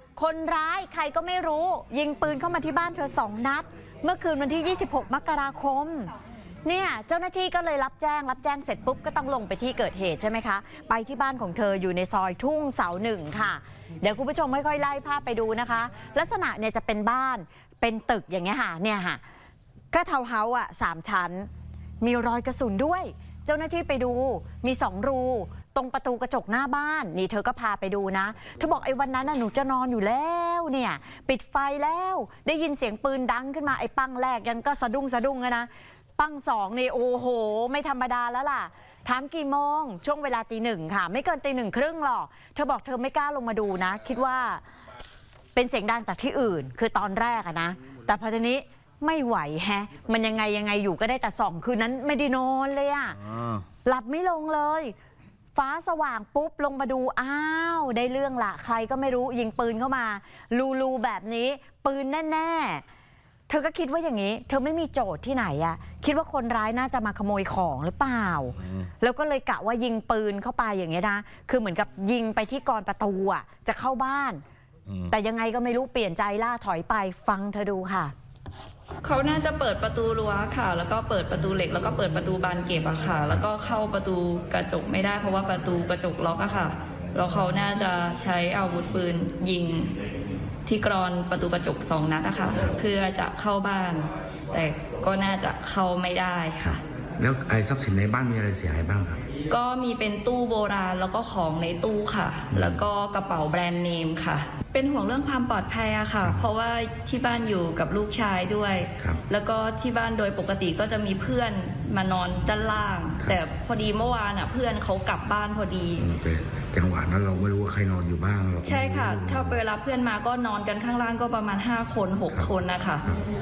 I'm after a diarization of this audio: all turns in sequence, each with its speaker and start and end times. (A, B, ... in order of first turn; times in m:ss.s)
0:00.2-0:06.1 A
0:06.6-0:19.2 A
0:19.9-0:21.5 A
0:22.0-0:44.6 A
0:45.5-0:53.3 A
0:53.8-0:54.9 A
0:55.5-1:02.8 A
1:03.5-1:14.4 A
1:15.1-1:18.1 A
1:19.0-1:29.9 B
1:30.6-1:36.8 B
1:37.2-1:39.2 C
1:39.5-1:56.1 B
1:56.0-1:59.6 C
1:58.6-2:03.1 B
2:02.3-2:02.5 C